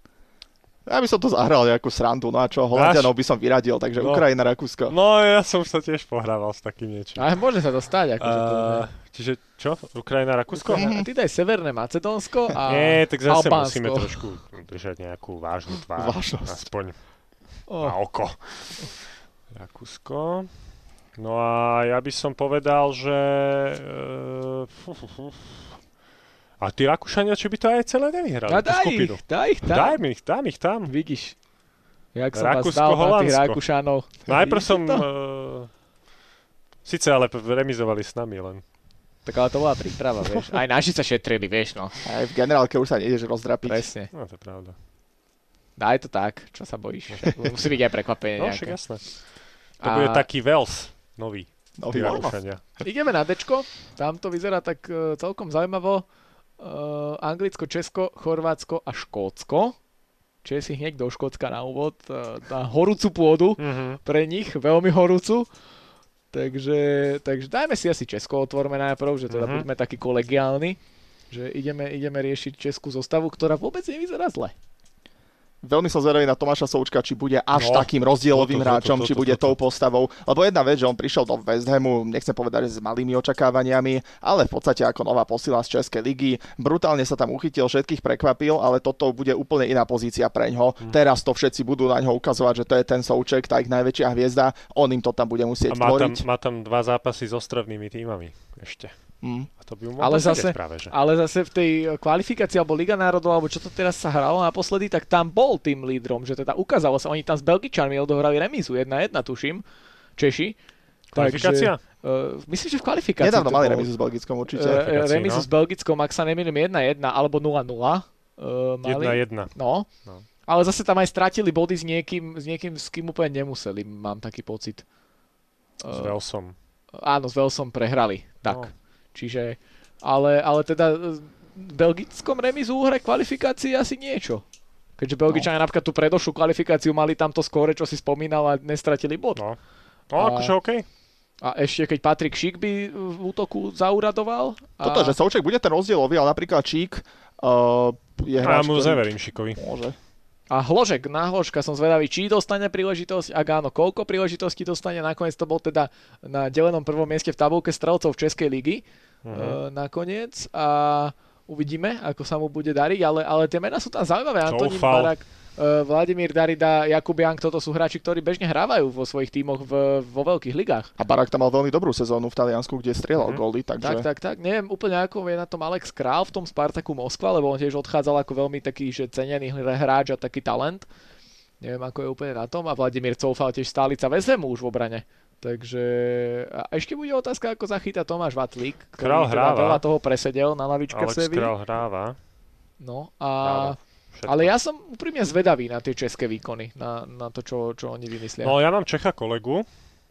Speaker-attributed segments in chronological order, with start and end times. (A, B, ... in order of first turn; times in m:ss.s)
0:00.8-0:04.9 A
0:02.7-0:03.1 B
0:04.0-0:04.2 B
0:04.9-0:07.3 B
0:07.2-0:08.9 C
0:08.2-0:10.9 B
0:10.5-0:14.2 C
0:10.7-0:11.0 A
0:12.6-0:17.0 B
0:16.0-0:16.6 A
0:17.7-0:18.0 C
0:17.8-0:18.9 B
0:19.5-0:20.5 B
0:21.2-0:25.4 B
0:26.6-0:30.9 B
0:28.5-0:30.0 C
0:30.9-0:31.4 C
0:32.1-0:35.0 C
0:32.3-0:33.6 B
0:34.2-0:35.7 B
0:36.8-0:38.6 B
0:39.2-0:41.9 C
0:42.0-0:43.8 A
0:43.6-0:44.1 C
0:44.1-0:44.7 B
0:45.8-0:48.8 C
0:48.4-0:49.1 B
0:49.8-0:50.3 C
0:49.8-0:52.6 B
0:51.8-0:52.3 A
0:52.8-0:56.0 C
0:56.6-0:59.8 C
1:00.4-1:05.5 C
1:03.6-1:04.0 B
1:06.3-1:10.8 C
1:09.3-1:09.6 B
1:11.3-1:14.5 C
1:15.6-1:36.2 A
1:17.5-1:19.6 B
1:35.7-1:38.9 B
1:39.2-1:39.5 A
1:39.6-1:40.9 B
1:40.0-1:49.6 C
1:50.2-1:50.6 C
1:51.1-1:51.8 B
1:51.1-1:53.9 C
1:53.2-1:55.0 A
1:54.5-1:59.9 C
1:54.8-1:55.4 B
1:58.8-1:59.5 B
2:00.5-2:04.8 C
2:05.8-2:06.1 C
2:05.9-2:06.5 B
2:07.0-2:14.4 C
2:15.0-2:19.4 C
2:20.1-2:20.8 B
2:20.2-2:20.5 C
2:21.4-2:25.2 C
2:24.8-2:29.0 A
2:28.4-2:29.6 B
2:29.6-2:30.0 A
2:30.5-2:50.9 C
2:39.2-2:39.6 B
2:44.4-2:45.1 B
2:51.0-2:54.0 A
2:53.8-3:00.9 C
3:01.6-3:11.5 C
3:09.0-3:09.8 B
3:10.9-3:12.2 B
3:12.8-3:18.5 C
3:13.4-3:14.5 B
3:18.4-3:19.7 B